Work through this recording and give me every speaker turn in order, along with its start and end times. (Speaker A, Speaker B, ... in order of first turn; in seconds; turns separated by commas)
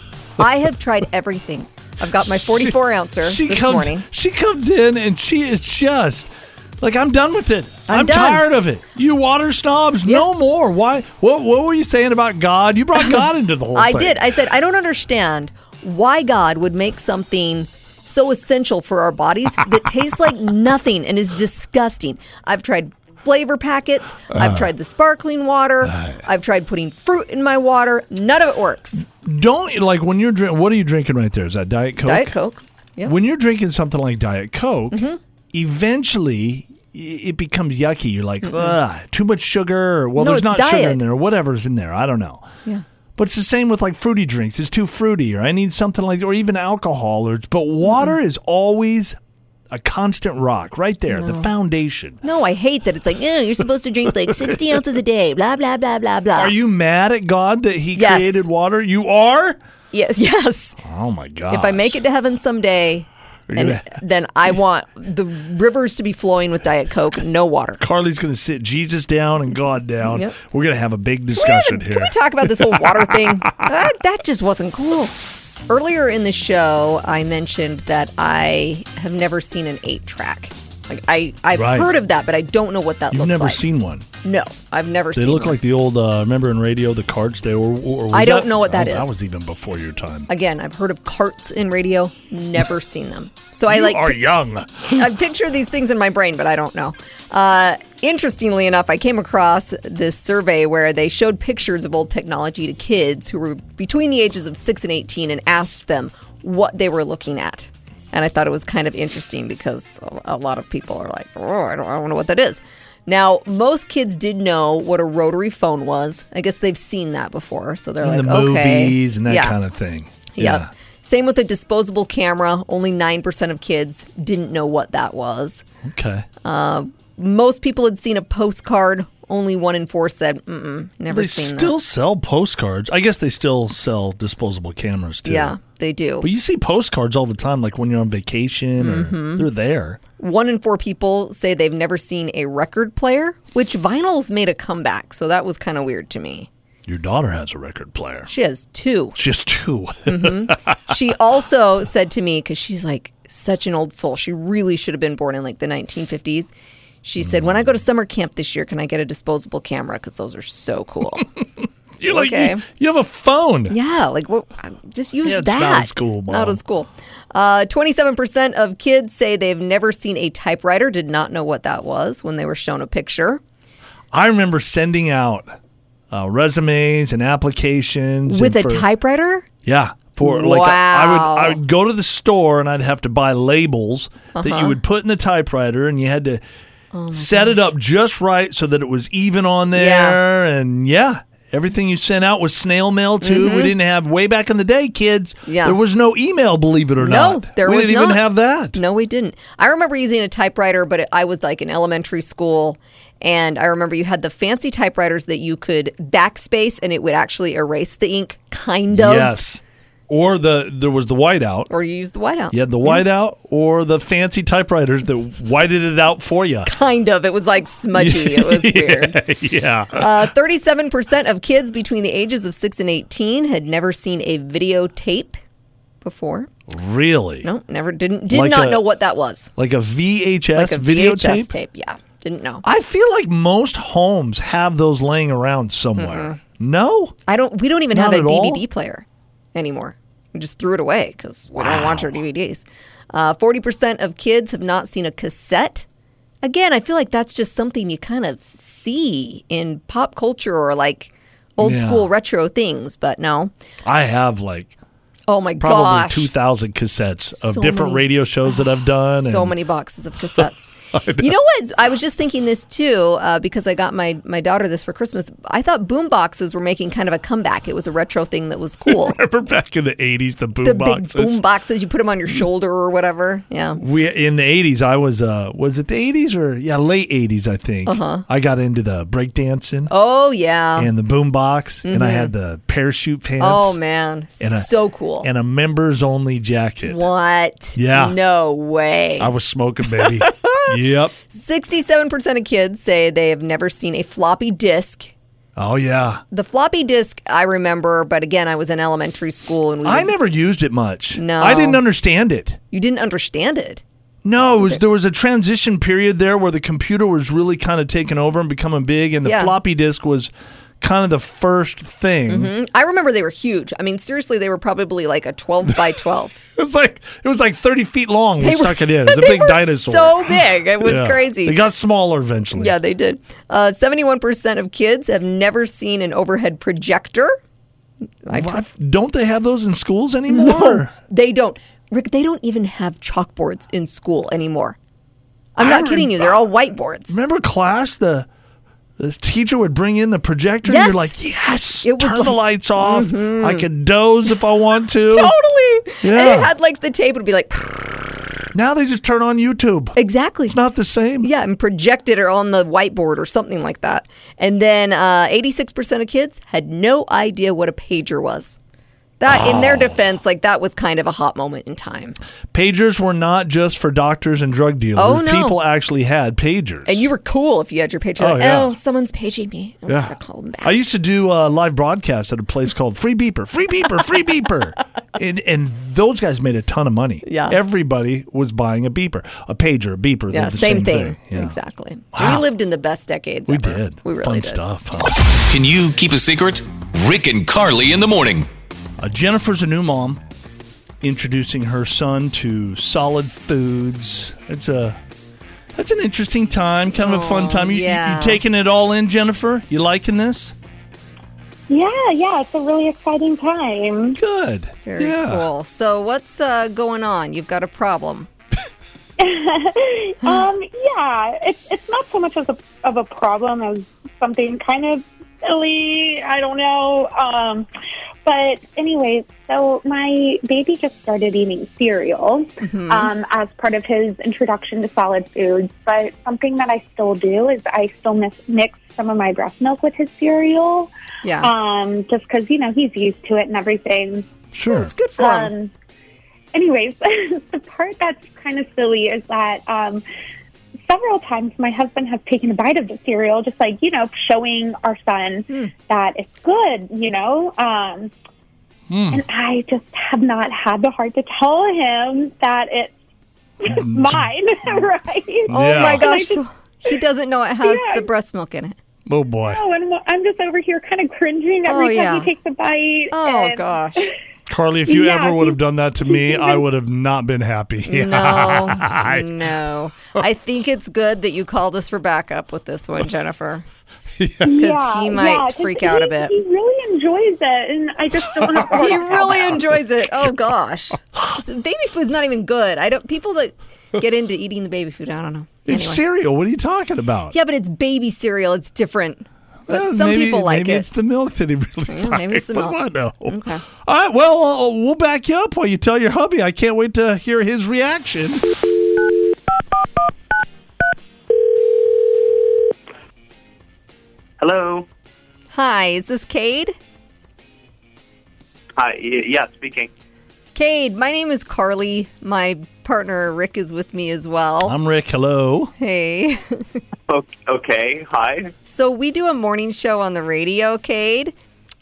Speaker A: 0.4-4.1, Speaker B: 2.4-14.3, Speaker A: 7.9-8.5, Speaker A: 13.8-29.0, Speaker B: 24.3-24.7, Speaker B: 25.8-26.2, Speaker B: 29.0-32.4, Speaker A: 32.0-33.2, Speaker B: 33.1-42.5, Speaker A: 34.9-35.2, Speaker A: 38.4-38.8, Speaker A: 40.2-41.0, Speaker B: 43.2-49.2, Speaker A: 47.8-48.1, Speaker B: 49.7-52.2, Speaker A: 51.1-51.5, Speaker A: 52.2-56.5, Speaker B: 54.2-54.6, Speaker B: 56.4-59.6, Speaker A: 58.0-58.5, Speaker A: 59.9-60.8, Speaker B: 60.8-62.0, Speaker A: 61.5-67.8, Speaker B: 63.5-64.0, Speaker B: 67.8-73.7, Speaker A: 70.0-70.3, Speaker A: 71.3-75.2, Speaker A: 75.7-83.7, Speaker B: 81.5-81.9, Speaker B: 83.1-84.1, Speaker A: 84.2-85.6, Speaker B: 85.2-90.3, Speaker A: 88.1-89.1, Speaker A: 90.3-94.2, Speaker B: 93.7-95.1, Speaker A: 94.9-119.6, Speaker B: 118.0-120.7, Speaker A: 120.3-125.6, Speaker B: 125.8-126.3, Speaker A: 126.4-131.8, Speaker B: 131.1-135.6, Speaker A: 135.2-136.3, Speaker B: 136.2-140.0, Speaker A: 138.8-139.5, Speaker A: 140.2-146.5, Speaker B: 146.9-148.3, Speaker A: 148.3-149.2, Speaker B: 149.2-150.8, Speaker A: 150.1-156.5, Speaker A: 157.0-161.3, Speaker B: 157.2-157.8, Speaker B: 162.0-163.8, Speaker A: 162.1-162.7, Speaker A: 163.7-173.4, Speaker B: 165.2-166.6, Speaker B: 174.1-175.6, Speaker B: 176.1-178.9, Speaker A: 178.3-179.5, Speaker B: 179.6-186.4, Speaker A: 180.2-181.6, Speaker A: 184.3-184.8, Speaker A: 186.9-187.7, Speaker B: 187.1-198.8, Speaker A: 189.7-190.2, Speaker A: 193.2-193.7, Speaker A: 195.5-195.8, Speaker A: 197.0-209.3, Speaker B: 208.9-211.7, Speaker A: 211.7-213.1, Speaker B: 212.5-216.7, Speaker A: 216.7-219.2, Speaker B: 217.9-220.3, Speaker A: 219.9-225.4, Speaker A: 226.0-226.5, Speaker B: 226.7-227.5, Speaker A: 227.4-229.5, Speaker B: 228.3-228.8, Speaker B: 229.6-231.5, Speaker A: 230.6-232.6, Speaker B: 232.6-237.2, Speaker A: 236.0-236.4, Speaker A: 237.3-245.9, Speaker B: 237.9-238.6, Speaker B: 241.6-242.2, Speaker A: 246.4-253.5, Speaker B: 251.6-252.1, Speaker B: 253.8-254.8, Speaker A: 255.3-256.3, Speaker B: 255.6-259.6, Speaker A: 257.4-269.2, Speaker B: 260.4-261.3, Speaker B: 268.9-271.4, Speaker A: 270.6-273.8, Speaker B: 273.8-279.9, Speaker A: 277.9-278.2, Speaker A: 279.9-280.9, Speaker B: 280.8-283.8, Speaker A: 281.8-282.3, Speaker A: 283.4-285.3, Speaker B: 284.4-287.0, Speaker A: 286.9-289.3, Speaker B: 287.8-288.2, Speaker B: 289.2-291.1, Speaker A: 290.0-295.1, Speaker B: 295.6-296.2, Speaker A: 296.3-300.1, Speaker B: 299.8-302.6, Speaker A: 301.1-301.8, Speaker A: 302.7-303.8, Speaker B: 304.2-312.5, Speaker A: 309.2-309.5, Speaker A: 312.3-316.4, Speaker B: 316.6-322.8, Speaker A: 318.4-321.6, Speaker A: 322.6-327.4, Speaker A: 328.2-328.6, Speaker B: 328.3-330.9, Speaker A: 330.3-334.8, Speaker A: 335.6-337.2, Speaker B: 335.6-336.5, Speaker B: 337.1-338.3, Speaker B: 339.0-345.4, Speaker A: 340.6-341.2, Speaker A: 341.8-343.7, Speaker A: 345.1-348.1, Speaker B: 346.0-346.5, Speaker B: 348.5-351.3, Speaker A: 350.0-350.6, Speaker A: 351.2-358.6, Speaker A: 359.2-362.2, Speaker B: 359.3-360.0, Speaker B: 362.5-367.1, Speaker A: 365.0-365.6, Speaker A: 366.9-370.8, Speaker B: 368.2-368.8, Speaker B: 369.9-381.6, Speaker A: 377.2-377.6, Speaker A: 380.3-384.6, Speaker B: 382.1-382.5, Speaker B: 383.5-385.2, Speaker C: 385.3-388.5, Speaker B: 389.0-390.2, Speaker B: 391.0-395.0, Speaker B: 395.8-400.6, Speaker A: 397.0-398.4, Speaker D: 401.7-404.2, Speaker B: 404.1-405.5, Speaker A: 404.9-408.3, Speaker D: 409.2-417.7, Speaker D: 418.2-430.9, Speaker A: 422.6-423.1, Speaker A: 431.2-431.5, Speaker D: 431.4-434.3, Speaker B: 434.5-434.9, Speaker A: 434.7-435.5, Speaker D: 435.2-435.7, Speaker D: 436.5-440.0, Speaker D: 440.9-448.1, Speaker B: 448.9-449.2, Speaker D: 449.1-452.9, Speaker D: 453.6-456.4, Speaker B: 453.7-454.3, Speaker B: 455.5-456.1, Speaker A: 455.5-458.8, Speaker D: 457.6-458.1, Speaker B: 459.1-459.6, Speaker D: 459.4-464.1, Speaker A: 461.7-462.3, Speaker A: 463.1-464.1, Speaker B: 464.5-469.5, Speaker D: 464.9-466.6, Speaker A: 467.9-473.7, Speaker B: 474.2-474.6, Speaker D: 474.4-479.5, Speaker A: 474.5-476.3, Speaker B: 478.3-480.3, Speaker A: 478.8-486.0, Speaker B: 485.7-487.4, Speaker A: 487.3-490.9, Speaker B: 489.7-498.4, Speaker A: 491.9-493.6, Speaker E: 504.4-504.9, Speaker A: 505.5-506.8, Speaker E: 508.8-509.9, Speaker A: 510.6-514.8, Speaker B: 514.6-515.7, Speaker A: 515.8-516.8, Speaker E: 517.1-518.5, Speaker A: 518.6-521.3